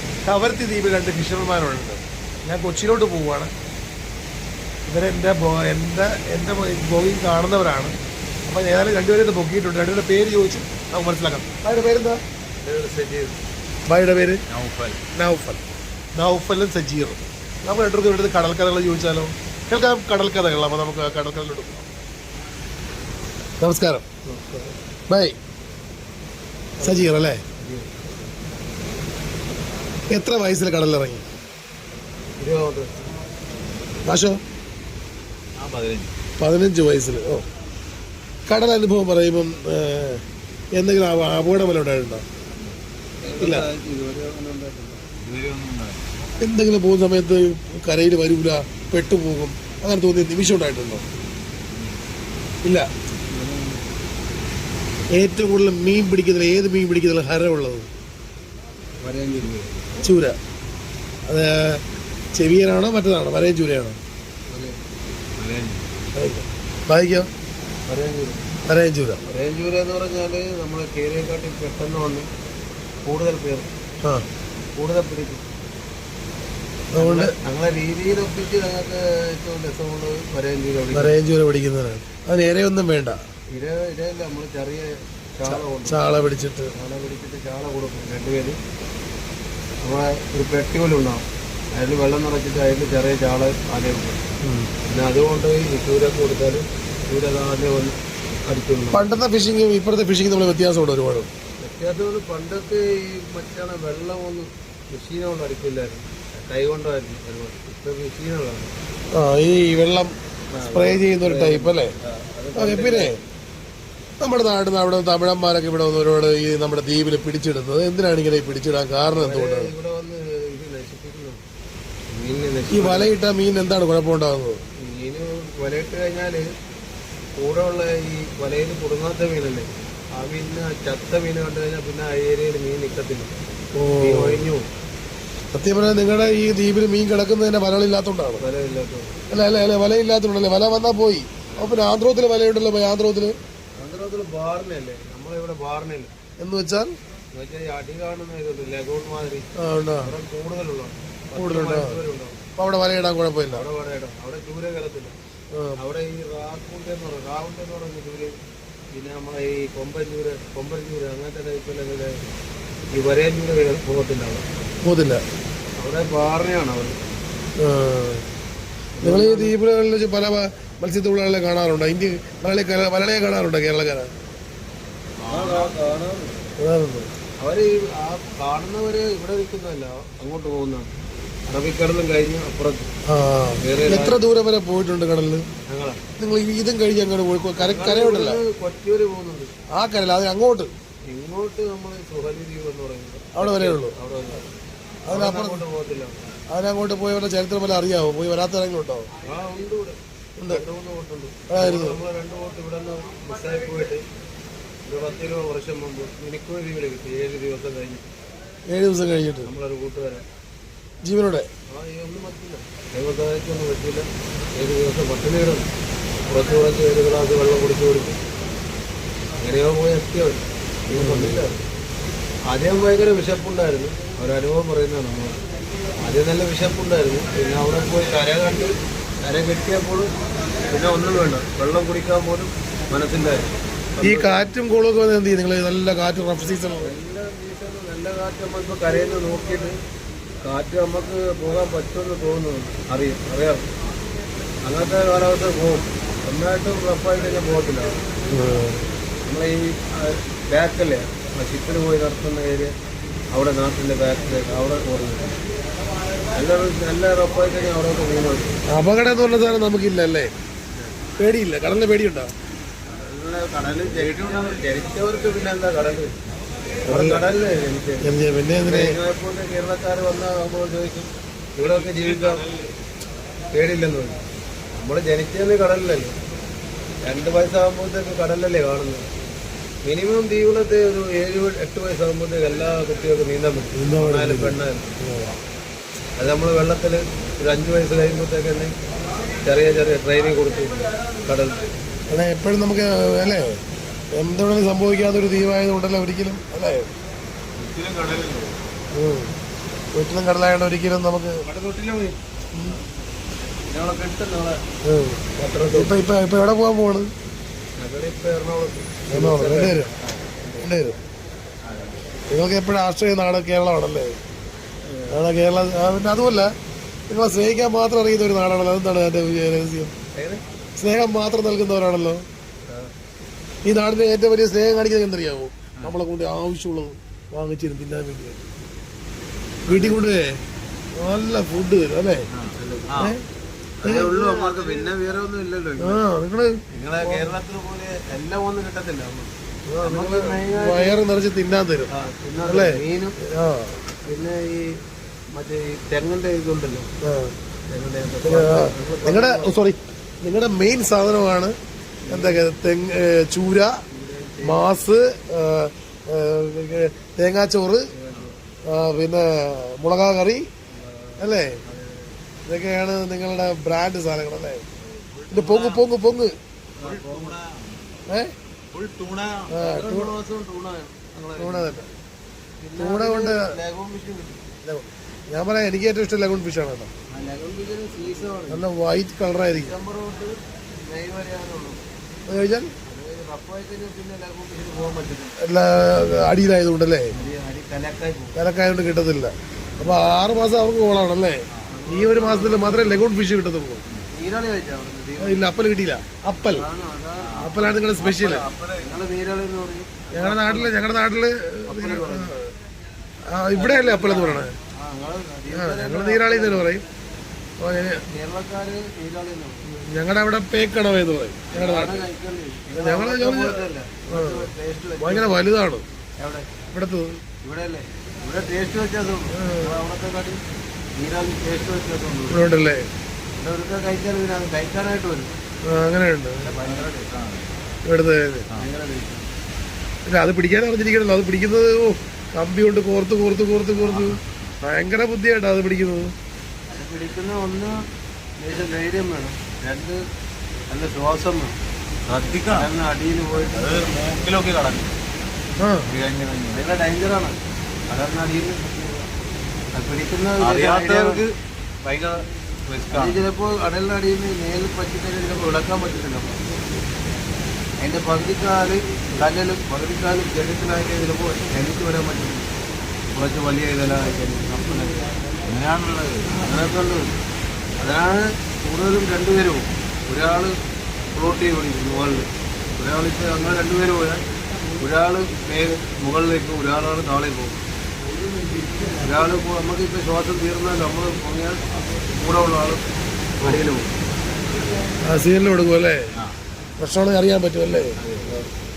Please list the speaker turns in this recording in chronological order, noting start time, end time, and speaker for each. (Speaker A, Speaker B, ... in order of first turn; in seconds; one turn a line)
Speaker A: 0.2-3.5
Speaker A: 4.9-8.0
Speaker A: 8.5-12.2
Speaker B: 12.6-13.4
Speaker A: 13.8-14.4
Speaker C: 14.5-15.0
Speaker A: 15.2-15.6
Speaker A: 16.2-21.8
Speaker A: 23.6-24.1
Speaker B: 24.3-24.7
Speaker A: 25.1-25.3
Speaker B: 26.8-28.0
Speaker A: 26.8-27.4
Speaker A: 30.1-31.2
Speaker B: 32.4-32.9
Speaker A: 34.0-34.4
Speaker C: 35.6-36.1
Speaker A: 36.4-37.5
Speaker A: 38.5-40.2
Speaker A: 40.7-42.2
Speaker B: 43.2-45.0
Speaker A: 43.4-43.7
Speaker C: 45.2-46.0
Speaker A: 46.4-51.0
Speaker C: 51.7-52.0
Speaker B: 53.3-53.8
Speaker A: 55.1-57.9
Speaker B: 59.0-59.8
Speaker A: 60.0-60.4
Speaker A: 61.3-61.8
Speaker A: 62.3-64.0
Speaker B: 64.5-64.8
Speaker C: 65.4-65.8
Speaker A: 66.1-67.3
Speaker B: 67.9-68.5
Speaker A: 68.7-69.2
Speaker B: 69.3-72.3
Speaker B: 73.0-73.7
Speaker B: 74.8-75.5
Speaker A: 77.0-77.3
Speaker B: 77.0-81.2
Speaker A: 80.9-83.2
Speaker B: 83.5-86.1
Speaker A: 85.5-86.7
Speaker B: 86.7-88.6
Speaker B: 89.8-94.2
Speaker A: 94.4-94.7
Speaker B: 94.8-99.1
Speaker A: 98.9-101.3
Speaker B: 101.6-108.7
Speaker A: 109.1-110.1
Speaker B: 110.5-113.2
Speaker A: 110.7-111.9
Speaker A: 112.5-113.2
Speaker A: 114.2-119.7
Speaker B: 119.1-121.4
Speaker B: 122.1-123.1
Speaker A: 122.7-124.6
Speaker B: 124.8-126.5
Speaker B: 127.4-133.3
Speaker A: 133.7-134.5
Speaker B: 134.0-134.7
Speaker A: 135.5-138.4
Speaker B: 138.4-139.2
Speaker A: 139.3-143.4
Speaker B: 143.8-146.1
Speaker A: 146.4-146.9
Speaker B: 147.3-149.5
Speaker A: 149.6-150.1
Speaker B: 150.0-152.4
Speaker A: 151.3-152.0
Speaker A: 152.6-153.7
Speaker B: 153.5-155.2
Speaker A: 155.5-155.8
Speaker B: 155.8-158.3
Speaker B: 158.9-162.2
Speaker B: 162.9-164.4
Speaker A: 164.8-165.2
Speaker B: 165.8-166.9
Speaker A: 167.6-168.2
Speaker B: 169.0-169.5
Speaker A: 169.0-174.1
Speaker C: 175.2-175.7
Speaker B: 175.2-176.4
Speaker A: 176.6-177.1
Speaker B: 177.4-180.9
Speaker B: 181.5-182.9
Speaker A: 183.1-185.4
Speaker B: 183.6-184.2
Speaker B: 185.7-186.0
Speaker A: 186.2-188.4
Speaker B: 187.6-189.5
Speaker A: 189.7-190.7
Speaker B: 191.1-194.4
Speaker A: 193.3-193.9
Speaker A: 195.1-195.6
Speaker B: 195.1-196.3
Speaker A: 196.5-199.1
Speaker B: 199.2-204.0
Speaker A: 200.4-200.6
Speaker A: 201.5-202.0
Speaker B: 204.8-208.1
Speaker A: 208.7-209.5
Speaker B: 209.4-210.2
Speaker A: 211.0-211.5
Speaker B: 211.7-215.7
Speaker B: 216.3-218.2
Speaker B: 219.4-221.6
Speaker A: 220.9-221.4
Speaker B: 222.5-225.4
Speaker B: 226.0-230.1
Speaker B: 230.7-234.5
Speaker A: 234.0-236.9
Speaker B: 236.8-239.7
Speaker B: 240.4-243.7
Speaker B: 244.6-248.0
Speaker A: 248.3-248.8
Speaker B: 249.2-252.7
Speaker B: 253.3-255.3
Speaker B: 256.3-258.6
Speaker A: 258.7-260.3
Speaker A: 261.2-262.3
Speaker B: 262.9-266.2
Speaker C: 263.6-264.6
Speaker A: 266.9-267.2
Speaker B: 266.9-268.1
Speaker A: 268.0-269.0
Speaker B: 268.6-272.4
Speaker C: 271.6-272.7
Speaker B: 273.5-274.2
Speaker B: 274.8-276.1
Speaker B: 277.0-279.1
Speaker B: 279.8-284.9
Speaker A: 283.8-285.3
Speaker B: 286.2-288.8
Speaker B: 289.4-291.6
Speaker A: 292.1-293.6
Speaker A: 294.1-296.9
Speaker C: 297.6-298.6
Speaker A: 298.9-299.4
Speaker A: 299.9-301.4
Speaker B: 301.5-302.2
Speaker B: 303.7-304.6
Speaker A: 304.8-305.2
Speaker B: 305.4-306.0
Speaker A: 305.7-307.1
Speaker B: 307.8-310.7
Speaker A: 309.1-309.9
Speaker A: 310.6-311.0
Speaker A: 312.3-314.2
Speaker B: 314.9-315.2
Speaker A: 315.1-316.5
Speaker A: 317.1-319.9
Speaker B: 320.1-320.4
Speaker A: 320.8-322.2
Speaker B: 322.7-322.9
Speaker A: 323.6-328.4
Speaker B: 329.7-330.1
Speaker A: 329.7-330.4
Speaker A: 331.0-332.2
Speaker C: 332.3-333.2
Speaker B: 332.6-333.1
Speaker B: 333.8-336.0
Speaker A: 333.8-334.2
Speaker C: 334.0-334.9
Speaker A: 335.8-337.3
Speaker B: 336.7-341.0
Speaker A: 339.7-341.9
Speaker B: 341.9-343.2
Speaker A: 342.4-343.8
Speaker B: 344.1-344.8
Speaker B: 345.4-346.9
Speaker A: 347.0-347.4
Speaker B: 347.7-349.6
Speaker A: 348.2-351.5
Speaker B: 352.1-352.4
Speaker A: 352.1-353.7
Speaker B: 353.9-354.7
Speaker A: 354.4-357.9
Speaker B: 357.9-358.4
Speaker A: 358.7-360.5
Speaker B: 360.7-362.2
Speaker A: 361.2-361.6
Speaker A: 362.5-364.6
Speaker C: 364.8-365.8
Speaker A: 365.3-366.4
Speaker C: 366.8-368.0
Speaker B: 366.8-367.4
Speaker A: 368.1-368.3
Speaker C: 368.7-369.6
Speaker A: 369.5-370.1
Speaker B: 369.6-371.7
Speaker A: 371.4-371.9
Speaker B: 372.6-374.4
Speaker A: 372.8-373.5
Speaker A: 374.6-376.9
Speaker B: 377.1-378.6
Speaker A: 378.5-379.8
Speaker B: 379.5-381.9
Speaker A: 382.3-382.7
Speaker B: 382.9-385.4
Speaker A: 385.4-387.1
Speaker B: 387.1-388.4
Speaker A: 388.4-393.8
Speaker B: 391.7-393.1
Speaker B: 394.1-395.5
Speaker A: 395.2-396.7
Speaker B: 396.5-397.7
Speaker C: 397.2-399.0
Speaker A: 397.4-398.5
Speaker B: 398.8-400.9
Speaker A: 400.1-402.5
Speaker B: 401.7-402.4
Speaker A: 403.3-404.6
Speaker B: 403.6-406.8
Speaker A: 405.5-406.8
Speaker A: 407.6-408.0
Speaker B: 408.1-409.6
Speaker A: 409.7-412.0
Speaker B: 411.5-415.4
Speaker A: 412.7-415.8
Speaker B: 416.2-416.5
Speaker A: 416.7-417.2
Speaker B: 417.4-420.4
Speaker A: 419.3-419.8
Speaker B: 421.0-422.5
Speaker A: 422.3-422.9
Speaker B: 423.4-425.3
Speaker A: 425.6-426.6
Speaker B: 426.4-426.9
Speaker C: 426.4-427.6
Speaker A: 427.9-428.5
Speaker B: 428.6-429.3
Speaker A: 430.1-436.1
Speaker C: 433.8-434.5
Speaker B: 436.7-437.8
Speaker B: 438.4-440.1
Speaker B: 440.7-441.6
Speaker C: 442.1-442.7
Speaker B: 442.5-443.8
Speaker C: 443.5-444.9
Speaker A: 445.6-445.9
Speaker C: 445.9-446.6
Speaker B: 446.5-448.6
Speaker B: 449.7-451.2
Speaker C: 450.4-453.2
Speaker B: 452.9-456.4
Speaker B: 457.8-462.5
Speaker B: 463.1-465.0
Speaker C: 465.4-466.5
Speaker B: 466.3-467.1
Speaker B: 467.8-470.6
Speaker B: 471.1-474.2
Speaker B: 474.8-477.6
Speaker B: 479.0-482.8
Speaker B: 483.4-483.9
Speaker A: 485.0-486.0
Speaker A: 486.8-488.0
Speaker C: 488.0-488.4
Speaker B: 488.2-488.5